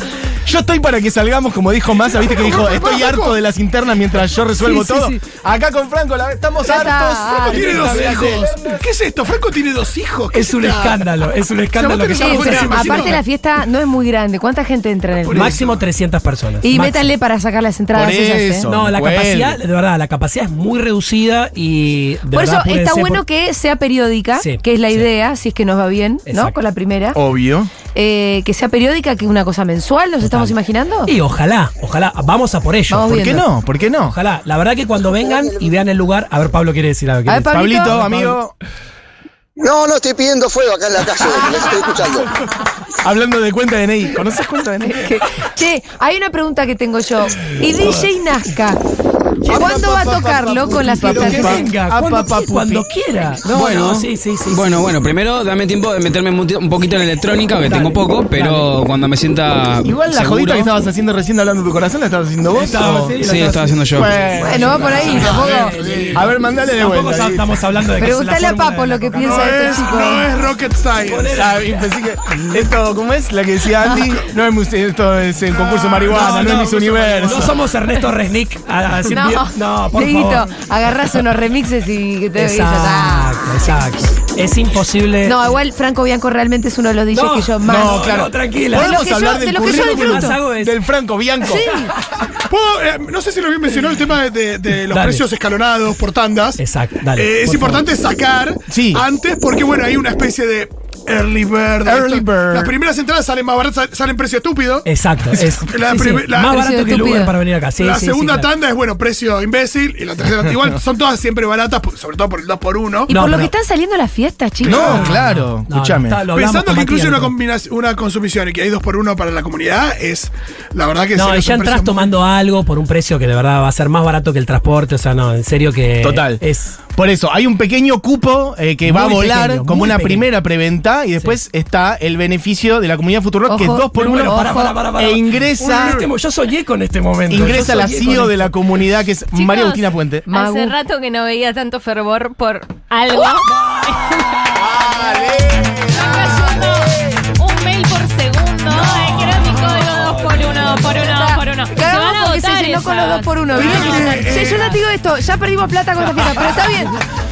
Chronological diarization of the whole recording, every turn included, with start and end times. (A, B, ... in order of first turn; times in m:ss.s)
0:00.4-0:08.8 A
0:02.1-0:03.4 B
0:04.6-0:05.2 C
0:06.6-0:07.7 C
0:07.3-0:11.1 B
0:07.6-0:08.6 D
0:10.3-0:13.2 D
0:11.7-0:13.2 B
0:12.1-0:15.6 C
0:15.2-0:15.8 B
0:15.3-0:17.1 D
0:16.6-0:18.7 C
0:17.9-0:19.6 A
0:18.7-0:23.2 D
0:22.3-0:27.2 C
0:24.4-0:25.1 D
0:26.3-0:26.5 D
0:27.2-0:27.7 A
0:27.9-0:31.1 C
0:30.2-0:30.6 D
0:31.1-0:33.2 D
0:32.9-0:33.4 C
0:33.1-0:34.2 A
0:34.1-0:38.4 D
0:35.0-0:35.8 E
0:37.3-0:38.0 C
0:37.4-0:38.5 A
0:39.6-0:42.3 E
0:43.0-0:45.1 A
0:44.8-0:48.8 C
0:49.4-0:52.9 A
0:49.5-0:51.6 C
0:51.0-0:54.8 D
0:53.4-0:54.1 A
0:54.5-1:00.7 F
0:57.6-0:58.0 A
0:58.4-0:58.7 D
0:59.8-1:07.5 A
1:02.5-1:09.9 D
1:03.2-1:04.1 F
1:04.4-1:05.7 C
1:04.9-1:06.2 B
1:08.0-1:10.3 C
1:09.2-1:11.5 B
1:11.1-1:12.7 D
1:11.3-1:17.6 A
1:15.5-1:17.6 B
1:16.1-1:20.5 D
1:19.1-1:23.4 C
1:22.4-1:25.4 D
1:25.2-1:28.1 C
1:27.1-1:29.0 D
1:27.6-1:31.8 A
1:28.8-1:30.4 C
1:29.6-1:30.8 D
1:31.4-1:31.9 C
1:32.5-1:36.6 B
1:34.9-1:35.2 D
1:36.6-1:37.8 D
1:37.1-1:46.6 B
1:38.7-1:39.0 A
1:41.9-1:42.7 A
1:44.8-1:48.5 D
1:46.4-1:47.3 C
1:47.8-1:53.1 B
1:53.1-1:55.1 C
1:53.1-1:53.5 D
1:54.6-1:56.2 A
1:54.6-1:55.0 B
1:54.7-1:57.3 D
1:56.3-2:02.1 B
2:01.1-2:06.8 D
2:06.0-2:06.4 A
2:07.0-2:16.1 A
2:08.9-2:10.3 D
2:13.5-2:14.8 C
2:13.9-2:18.5 D
2:17.3-2:20.3 A
2:19.3-2:24.5 G
2:20.3-2:20.8 C
2:24.5-2:26.9 A
2:25.9-2:34.2 G
2:26.0-2:26.9 C
2:28.7-2:29.1 A
2:28.8-2:30.2 B
2:30.9-2:37.0 C
2:33.5-2:34.8 B